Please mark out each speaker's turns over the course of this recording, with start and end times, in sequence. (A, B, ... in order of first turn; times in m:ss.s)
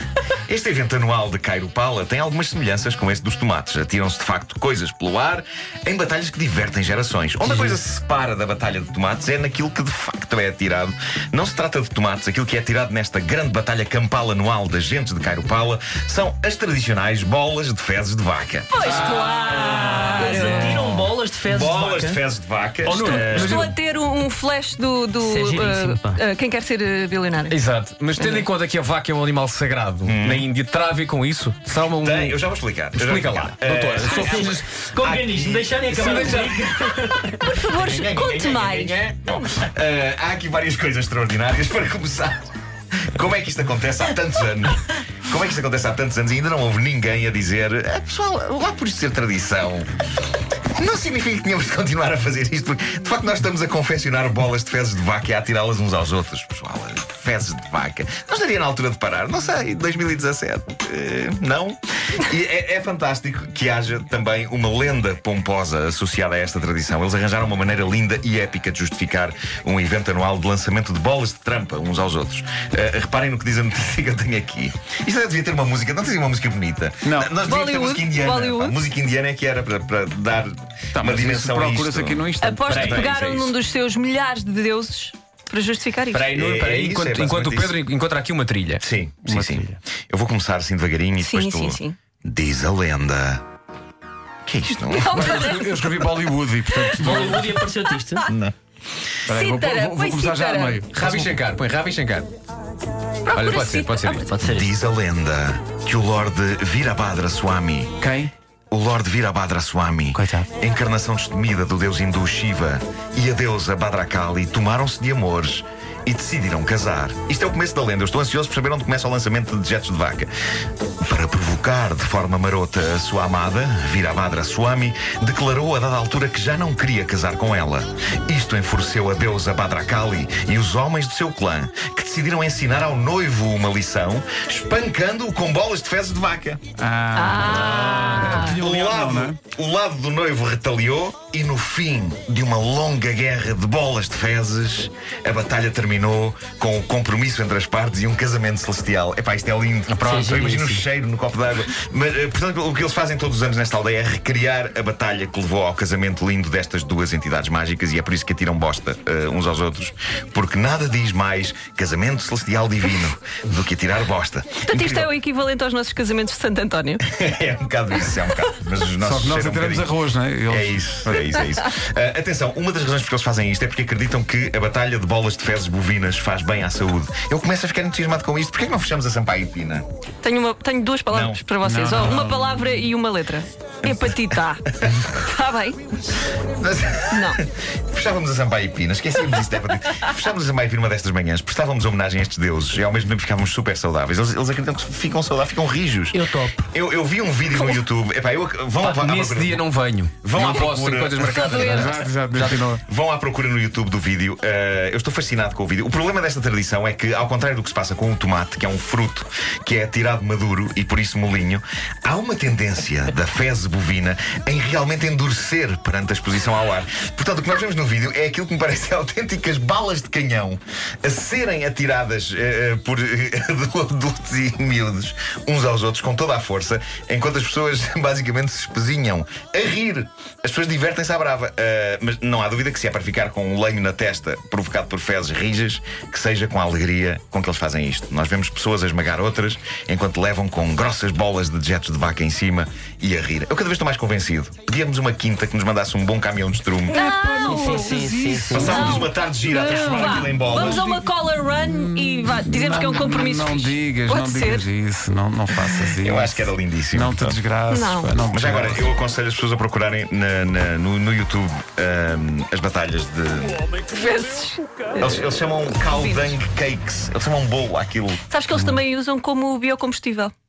0:00.4-0:18.7 A
0:18.7-0:20.9 B
0:18.8-0:22.2 C
0:18.8-0:21.1 D
0:21.4-0:23.7 A
0:22.8-0:23.7 D
0:23.0-0:27.6 B
0:25.2-0:26.2 C
0:27.5-0:32.4 D
0:28.2-0:28.5 B
0:30.0-0:30.5 A
0:31.9-0:36.4 A
0:32.9-0:34.6 D
0:34.0-0:37.3 C
0:35.9-0:37.2 D
0:37.3-0:42.5 A
0:37.4-0:39.5 B
0:43.1-0:49.9 A
0:50.8-1:23.0 A
1:17.0-1:17.3 E
1:17.4-1:18.8 B
1:20.9-1:23.0 E
1:22.4-1:26.3 B
1:22.7-1:23.5 D
1:26.1-1:28.8 D
1:26.3-1:27.8 A
1:28.8-1:33.4 A
1:29.2-1:29.8 E
1:31.2-1:32.0 B
1:34.4-1:35.3 A
1:34.8-1:36.2 B
1:35.2-1:37.5 E
1:35.2-1:36.0 D
1:36.7-1:38.3 B
1:36.9-1:38.3 C
1:38.3-1:38.5 A
1:39.3-1:41.4 E
1:39.3-1:40.8 B
1:40.9-1:42.3 D
1:43.2-1:44.3 B
1:43.3-1:44.4 D
1:44.3-1:44.7 C
1:44.4-1:48.0 A
1:48.0-1:48.3 E
1:48.7-2:00.3 A
1:50.1-1:50.5 C
2:01.0-2:16.6 A
2:16.8-2:19.4 E
2:17.1-2:18.6 B
2:18.3-2:45.1 A
2:30.0-2:30.8 C
2:44.6-2:47.0 B
2:47.0-2:50.0 A
2:49.0-2:51.3 E
2:50.5-2:59.8 A
3:00.2-3:04.6 B
3:01.1-3:01.4 A
3:01.6-3:02.7 E
3:03.8-3:05.1 A
3:05.1-3:05.8 B
3:06.4-3:19.6 A
3:07.1-3:07.4 B
3:16.1-3:16.7 C
3:17.5-3:17.8 B
3:18.8-3:22.6 D
3:20.2-3:21.8 A
3:20.4-3:20.6 B
3:21.2-3:22.0 B
3:21.7-3:22.8 E
3:22.8-4:07.0 A
4:06.9-4:09.1 E
4:06.9-4:08.0 B
4:07.4-4:09.0 C
4:08.5-4:10.8 A
4:08.5-4:14.7 B
4:09.6-4:11.0 E
4:11.5-4:18.9 E
4:16.0-4:17.4 A
4:17.7-4:18.2 B
4:18.3-4:23.7 A
4:23.9-4:25.2 B
4:25.0-4:28.2 A
4:25.8-4:26.4 B
4:28.3-4:30.3 B